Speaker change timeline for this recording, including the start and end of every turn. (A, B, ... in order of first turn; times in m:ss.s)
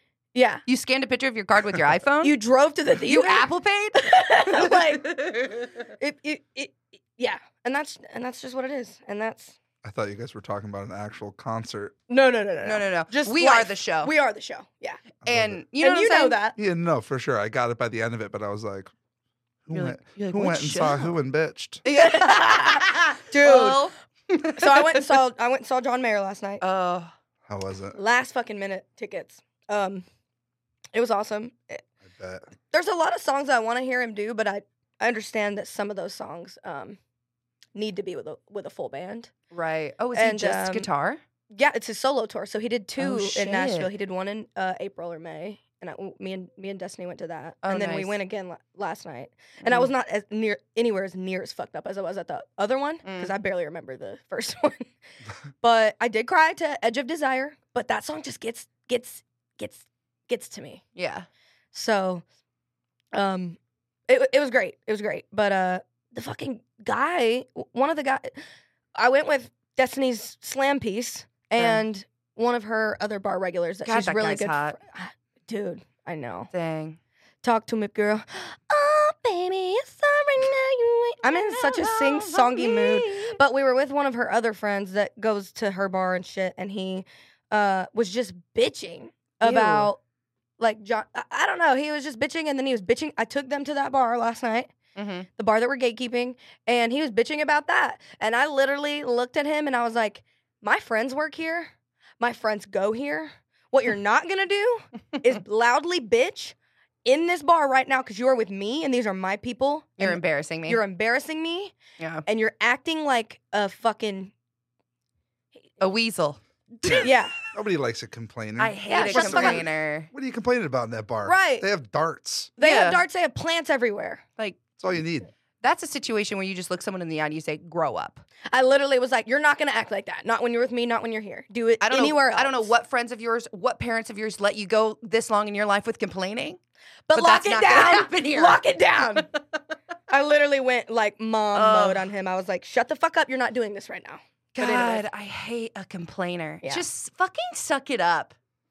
0:00.3-0:00.6 A
0:00.6-0:02.4 B
0:02.2-0:05.2 A
0:03.0-0:05.7 B
0:06.0-0:09.6 A
0:09.8-0:12.0 C
0:12.1-0:15.0 A
0:12.6-0:14.1 B
0:15.2-0:15.6 C
0:15.2-0:16.4 B
0:15.8-0:16.6 A
0:16.6-0:18.9 C
0:19.6-0:21.8 C
0:19.7-0:21.1 B
0:21.8-0:25.2 B
0:21.9-0:23.9 A
0:24.6-0:26.6 A
0:26.6-0:27.1 B
0:27.5-0:28.0 C
0:27.9-0:30.0 A
0:30.9-0:31.8 A
0:32.0-0:32.5 C
0:32.7-0:37.0 A
0:37.7-0:39.3 A
0:39.5-0:41.2 B
0:40.1-0:40.9 A
0:41.5-0:54.9 A
0:43.0-0:43.9 B
0:47.6-0:48.2 B
0:53.0-0:53.3 B
0:55.6-1:00.8 A
1:01.0-1:01.3 B
1:01.7-1:02.2 A
1:03.1-1:08.4 A
1:08.9-1:16.5 A
1:11.6-1:11.8 B
1:13.8-1:14.8 B
1:16.5-1:17.0 B
1:17.4-1:30.0 A
1:21.5-1:23.4 B
1:29.4-1:29.9 B
1:30.6-1:34.7 A
1:35.0-1:35.3 B
1:35.4-1:54.3 A
1:50.0-1:50.8 B
1:52.0-1:52.2 B
1:55.8-1:57.5 B
1:56.9-1:57.4 A
1:57.5-2:02.5 C
1:58.6-2:00.1 B
1:58.9-1:59.6 A
2:01.2-2:01.7 A
2:02.6-2:04.2 A
2:02.6-2:03.0 B
2:04.8-2:05.3 C
2:05.6-2:08.2 B
2:08.5-2:12.7 A
2:11.8-2:16.6 B
2:17.1-2:19.3 A
2:17.1-2:18.6 B
2:20.1-2:25.0 A
2:21.5-2:22.1 B
2:24.6-2:28.3 B